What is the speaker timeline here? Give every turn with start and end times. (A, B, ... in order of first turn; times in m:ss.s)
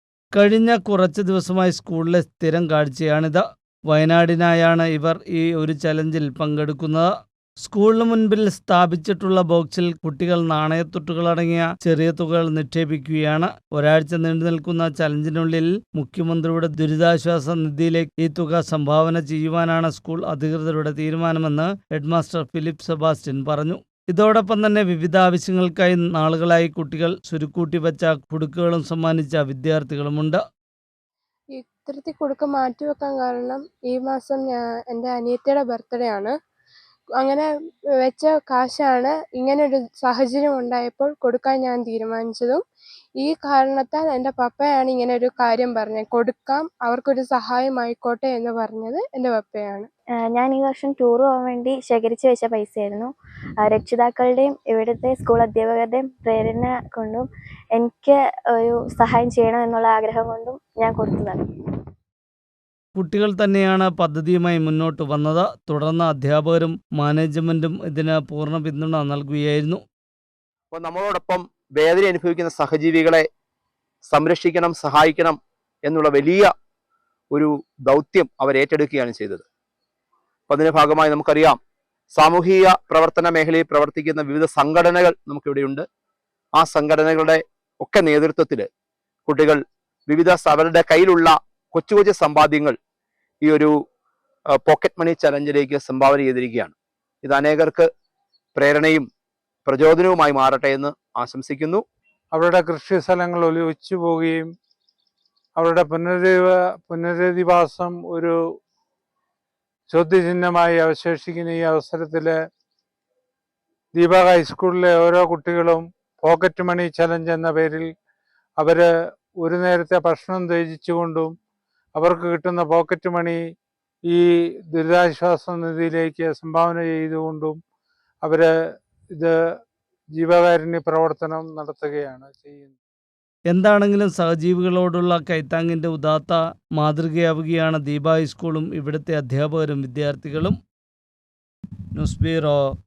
0:00.3-0:07.1 A
0:07.6-0:30.4 A
0:31.6-0:36.3 B
0:37.2-0:37.4 B
0:38.0-0:42.6 B
0:43.2-0:49.9 B
0:50.3-1:01.4 C
1:02.9-1:09.8 A
1:10.7-1:13.2 D
1:14.0-1:16.5 D
1:17.3-1:19.4 D
1:20.5-1:21.6 D
1:22.1-1:25.8 D
1:26.5-1:28.7 D
1:29.3-1:32.7 D
1:33.4-1:33.7 D
1:34.6-1:37.9 D
1:38.5-1:39.1 D
1:39.6-1:41.8 D
1:42.3-1:44.5 E
1:45.6-1:48.4 E
1:49.9-1:52.4 E
1:54.0-1:57.9 E
1:58.6-2:01.3 E
2:02.0-2:03.4 E
2:04.1-2:07.6 E
2:08.2-2:08.5 E
2:10.2-2:12.8 E
2:13.5-2:20.6 A
2:21.9-2:22.6 A